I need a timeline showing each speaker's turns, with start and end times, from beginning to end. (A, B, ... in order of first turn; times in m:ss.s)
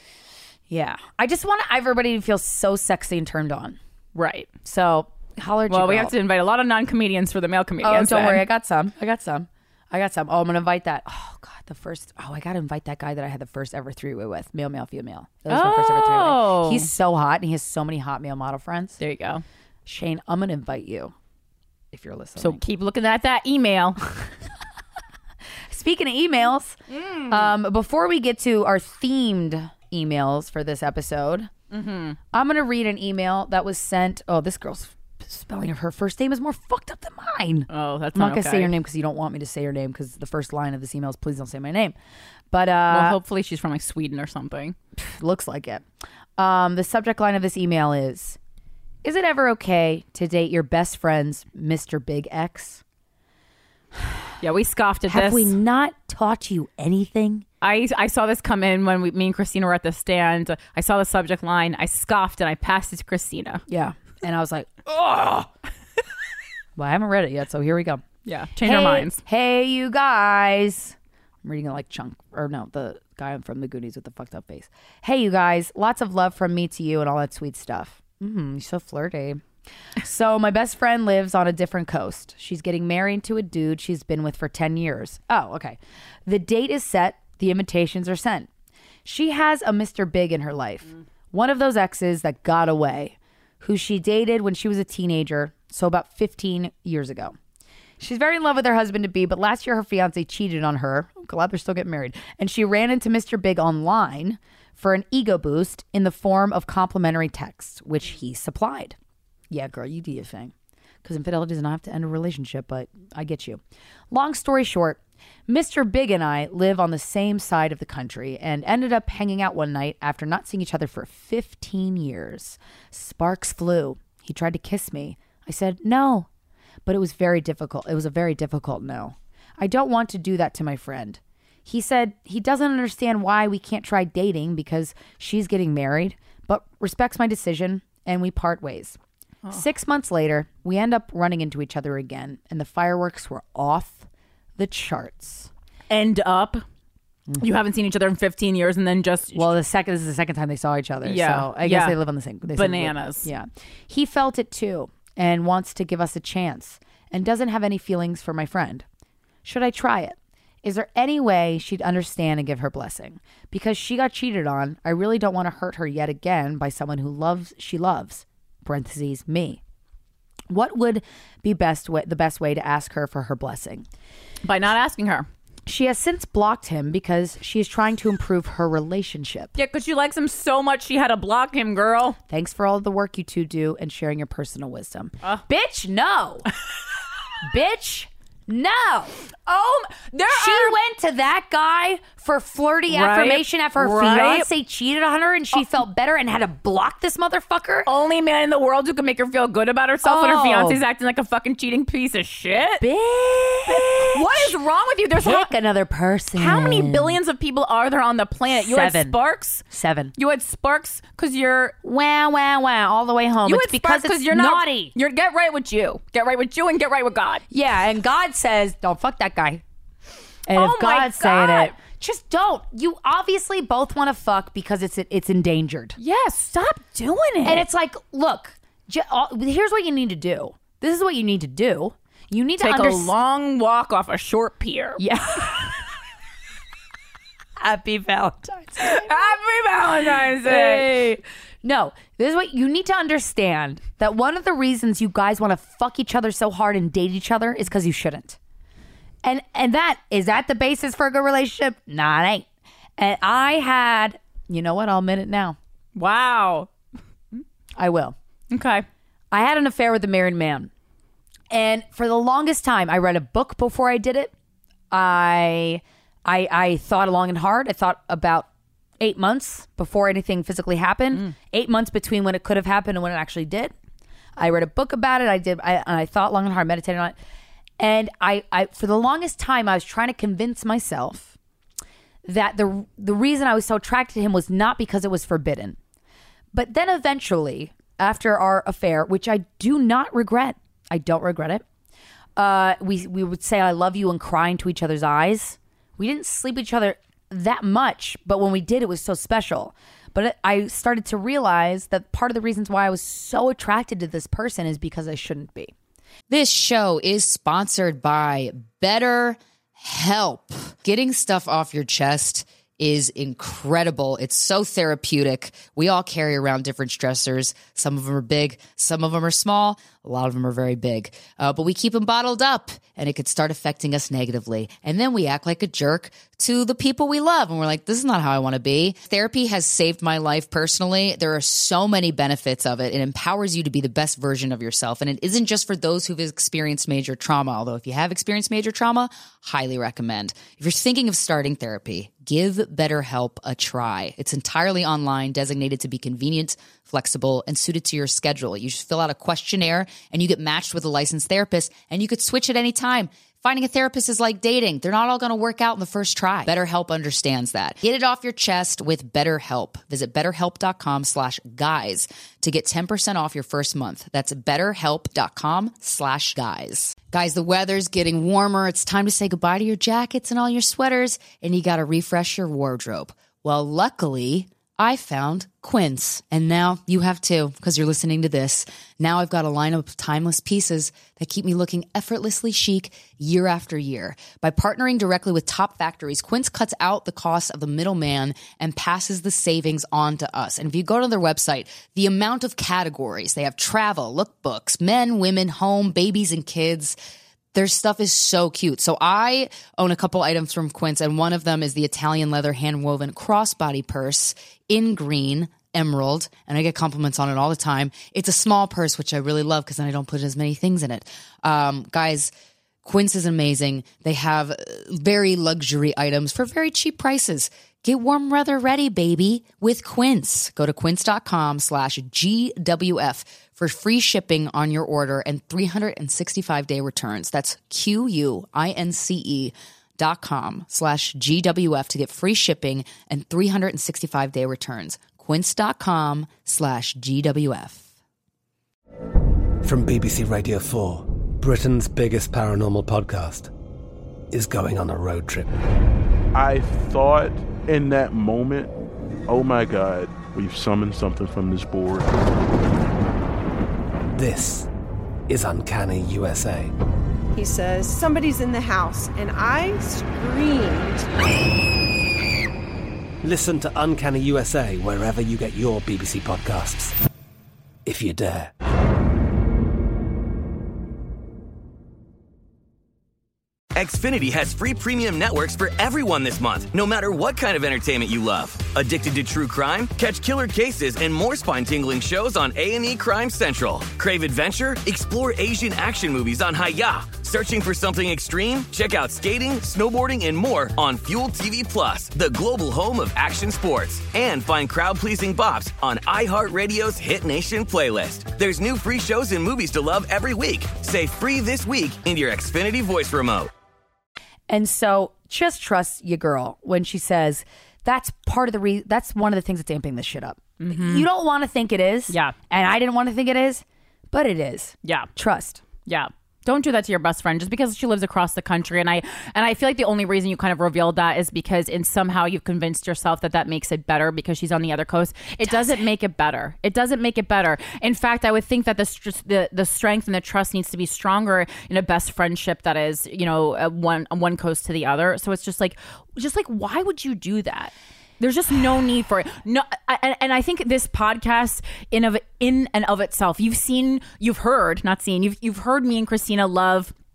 0:00.7-0:03.8 A
0:04.2-0:04.5 B
0:04.6-0:06.1 A
0:05.7-0:08.4 B
0:07.8-0:19.0 A
0:15.5-0:16.9 B
0:19.0-0:19.4 B
0:19.9-0:21.1 A
0:21.9-0:22.6 A
0:22.4-0:24.0 B
0:25.7-0:26.8 A
0:26.9-0:27.5 B
0:27.3-0:31.5 A
0:31.7-0:32.2 B
0:32.3-0:42.0 A
0:37.7-0:38.7 B
0:42.5-0:43.2 A
0:42.9-0:44.8 B
0:45.0-0:45.8 A
0:46.4-0:48.4 A
0:49.0-0:52.8 A
0:54.0-0:54.2 A
0:54.4-0:55.5 B
0:55.1-0:57.4 A
0:57.6-1:03.6 B
1:03.7-1:05.5 A
1:06.8-1:08.0 A
1:08.3-1:09.2 B
1:08.6-1:19.4 A
1:20.0-1:28.5 A
1:29.0-1:37.4 A
1:38.0-1:49.0 A
1:49.5-1:50.5 A
1:51.0-2:06.3 A
2:06.9-2:19.0 A
2:19.5-2:25.5 A
2:25.9-2:26.6 B
2:27.4-2:29.5 B
2:29.4-2:38.8 A
2:31.0-2:32.0 B
2:32.6-2:33.3 B
2:39.4-2:49.6 A
2:50.5-2:53.9 A
2:54.4-2:55.3 B
2:55.7-2:59.5 A
2:59.6-3:02.2 B
3:02.3-3:06.5 A
3:07.4-3:09.2 A
3:09.5-3:10.8 B
3:10.3-3:17.9 A
3:12.9-3:14.5 B
3:17.8-3:22.8 B
3:20.0-3:20.8 A
3:22.8-3:24.6 A
3:23.7-3:25.5 B
3:25.1-3:27.2 A
3:26.4-3:29.6 B
3:28.5-3:30.1 A
3:30.2-3:31.8 B
3:31.8-3:34.9 A
3:33.4-3:37.4 B
3:37.5-3:39.6 A
3:40.5-3:46.0 A
3:40.5-3:41.8 B
3:46.0-3:47.6 B
3:47.4-3:53.1 A
3:52.6-3:55.0 B
3:55.0-3:55.8 A
3:57.6-3:59.3 A
3:58.8-4:01.0 B
4:00.4-4:08.4 A
4:09.2-4:12.5 A
4:13.0-4:15.6 A
4:16.0-4:16.7 B
4:17.8-4:18.2 A
4:18.5-4:18.9 B
4:19.3-4:20.7 A
4:21.5-4:24.3 A
4:24.9-4:28.5 A
4:29.0-4:33.7 A
4:34.4-4:37.2 A
4:37.8-4:41.4 A
4:42.2-4:45.8 A
4:46.5-4:51.6 A
4:52.4-5:05.7 A
5:06.3-6:37.0 C
6:37.6-6:52.3 C
6:52.8-7:17.8 C
7:19.6-7:23.5 D
7:24.3-7:25.5 D
7:26.3-7:28.7 E
7:29.3-7:32.1 E
7:34.2-7:34.7 D
7:35.3-7:36.7 D
7:37.3-7:41.1 F
7:43.2-7:47.0 D
7:47.9-7:48.5 D
7:53.8-8:23.5 G
8:24.5-8:35.6 A
8:30.6-8:31.1 B
8:32.1-8:32.4 B
8:34.8-8:35.1 B
8:35.9-9:06.9 B
8:45.4-8:45.8 A